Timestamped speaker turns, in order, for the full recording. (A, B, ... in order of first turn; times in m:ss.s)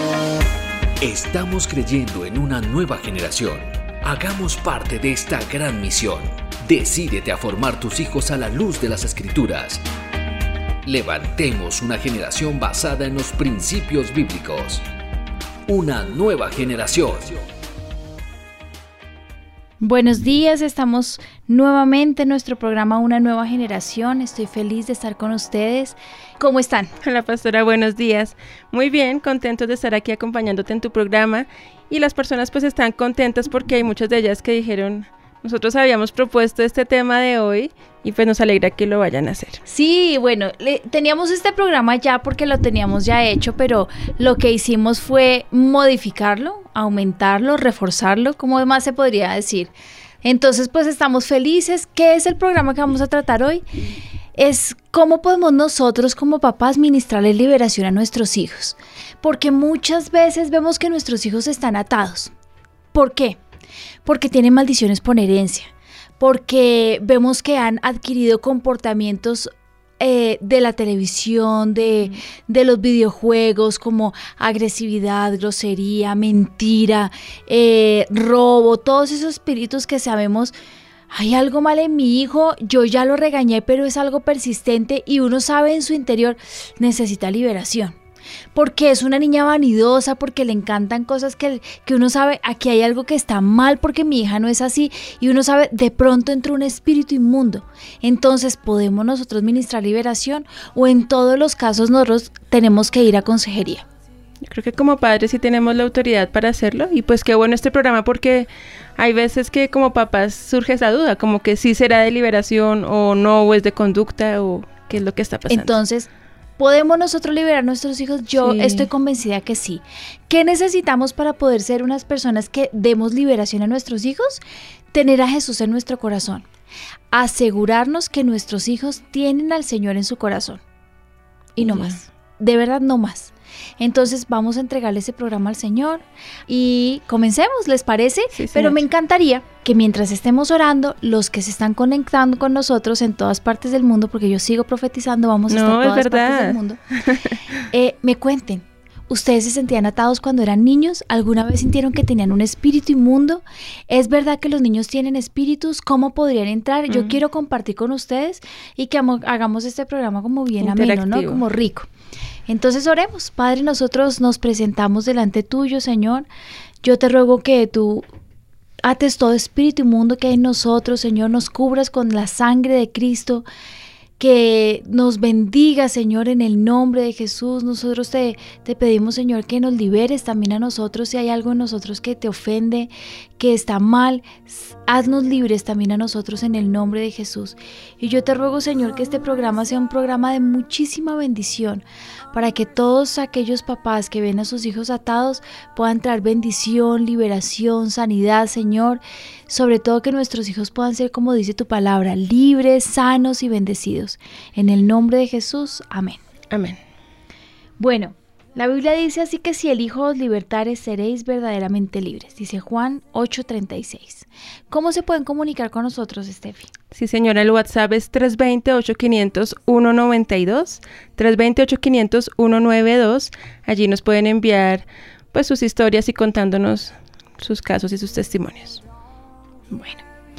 0:01.0-0:09.8 A
0:10.8-0:14.8 A
0:15.7-0:17.4 A
0:19.8-0:26.9 B
0:27.0-0:39.6 C
0:39.7-0:49.7 B
0:50.2-0:53.6 B
0:54.4-1:02.3 B
1:02.9-1:03.4 B
1:04.0-1:20.5 B
1:21.1-1:28.0 B
1:28.5-1:43.8 B
1:44.4-1:55.8 C
1:55.5-2:04.4 B
1:58.4-1:58.9 C
2:04.9-2:06.4 B
2:07.1-2:10.6 B
2:11.6-2:26.8 B
2:11.6-2:12.0 C
2:18.4-2:18.8 C
2:25.5-2:27.4 C
2:27.7-2:41.9 B
2:36.9-2:37.1 C
2:40.6-2:41.4 C
2:42.5-2:46.3 B
2:46.8-2:48.0 B
2:48.8-2:53.4 B
2:54.2-3:26.2 B
3:26.5-3:26.8 C
3:27.8-3:36.7 B
3:36.9-3:48.8 C
3:49.7-3:50.0 B